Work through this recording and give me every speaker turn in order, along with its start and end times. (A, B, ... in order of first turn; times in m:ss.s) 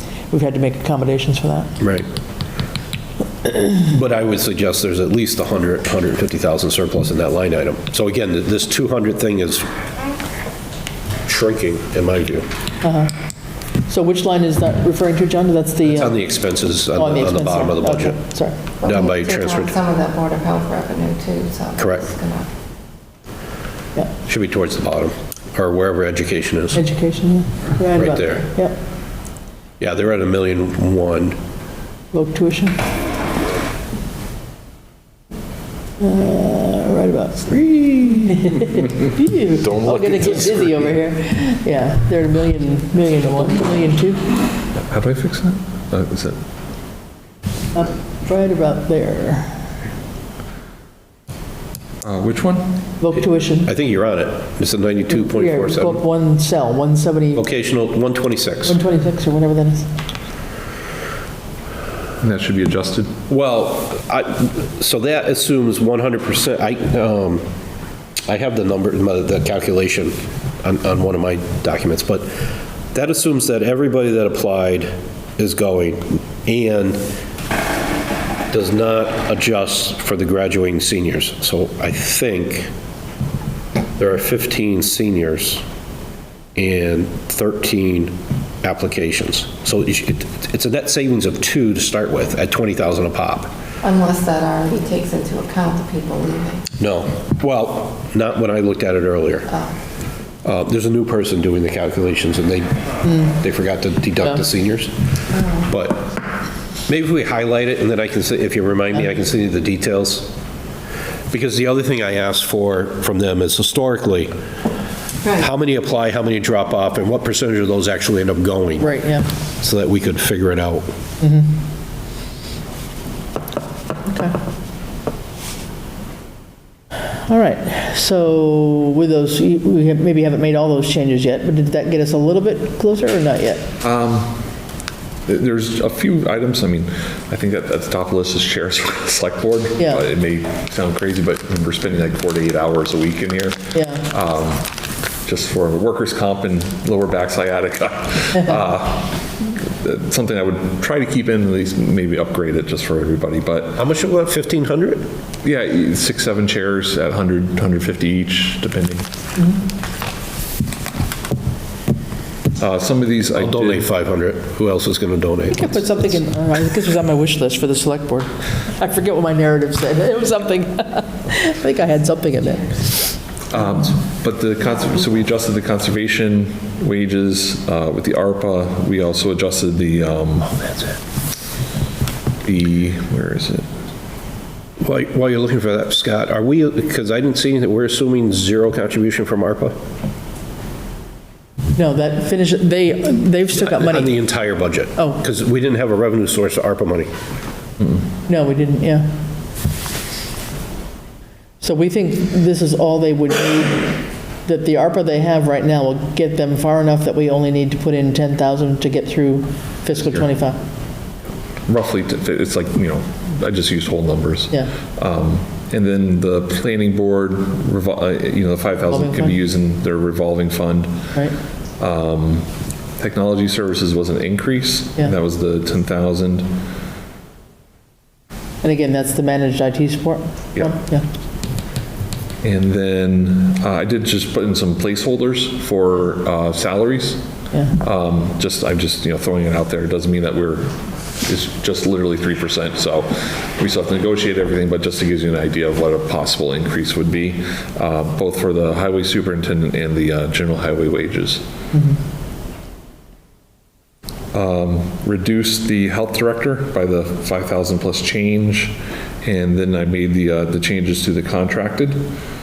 0:00.3-0:01.8 A
0:01.8-0:02.0 B
0:03.6-0:09.7 B
0:11.2-0:12.4 B
0:12.8-0:13.1 A
0:13.9-0:16.3 A
0:15.8-0:18.2 B
0:16.9-0:18.6 A
0:18.8-0:22.5 C
0:18.8-0:19.7 B
0:21.8-0:22.1 B
0:24.2-0:26.8 B
0:26.7-0:28.8 A
0:27.9-0:28.5 B
0:29.8-0:31.4 B
0:32.1-0:32.8 A
0:36.0-0:44.2 A
0:39.6-0:40.9 D
0:44.8-0:46.4 D
0:47.7-0:49.6 A
0:52.0-0:52.8 D
0:53.0-0:53.7 A
0:53.7-0:56.0 B
0:55.1-0:57.4 A
0:57.3-0:58.8 B
0:58.6-0:59.9 A
1:02.2-1:03.2 D
1:03.3-1:07.4 B
1:08.3-1:12.3 B
1:12.9-1:17.0 B
1:18.5-1:22.7 B
1:24.0-1:25.6 B
1:26.6-1:33.5 B
1:33.8-1:36.7 C
1:36.8-1:39.5 B
1:39.5-1:39.7 C
1:40.4-1:46.1 B
1:43.0-1:43.3 A
1:45.3-1:45.6 C
1:46.9-1:50.3 B
1:51.3-1:54.3 B
1:55.4-1:59.0 B
1:58.8-1:59.3 A
1:59.6-2:00.9 B
2:01.2-2:01.5 A
2:04.0-2:04.4 A
2:07.1-2:13.7 A
2:13.8-2:14.5 D
2:15.3-2:24.7 D
2:23.7-2:24.0 A
2:25.2-2:33.8 D
2:33.8-2:35.0 B
2:35.4-2:39.1 D
2:42.6-2:43.9 D
2:43.4-2:45.9 B
2:45.5-2:53.1 A
2:53.5-3:00.8 D
3:02.4-3:03.7 D
3:04.8-3:09.8 B
3:11.7-3:14.2 A
3:13.6-3:17.1 B
3:18.2-3:19.1 A
3:21.6-3:30.6 A
3:31.7-3:41.0 D
3:38.9-3:39.4 A
3:41.8-3:46.5 D
3:48.6-3:51.0 A
3:52.4-3:57.2 D
3:57.8-4:11.4 D
4:11.7-4:12.0 A
4:14.3-4:22.1 D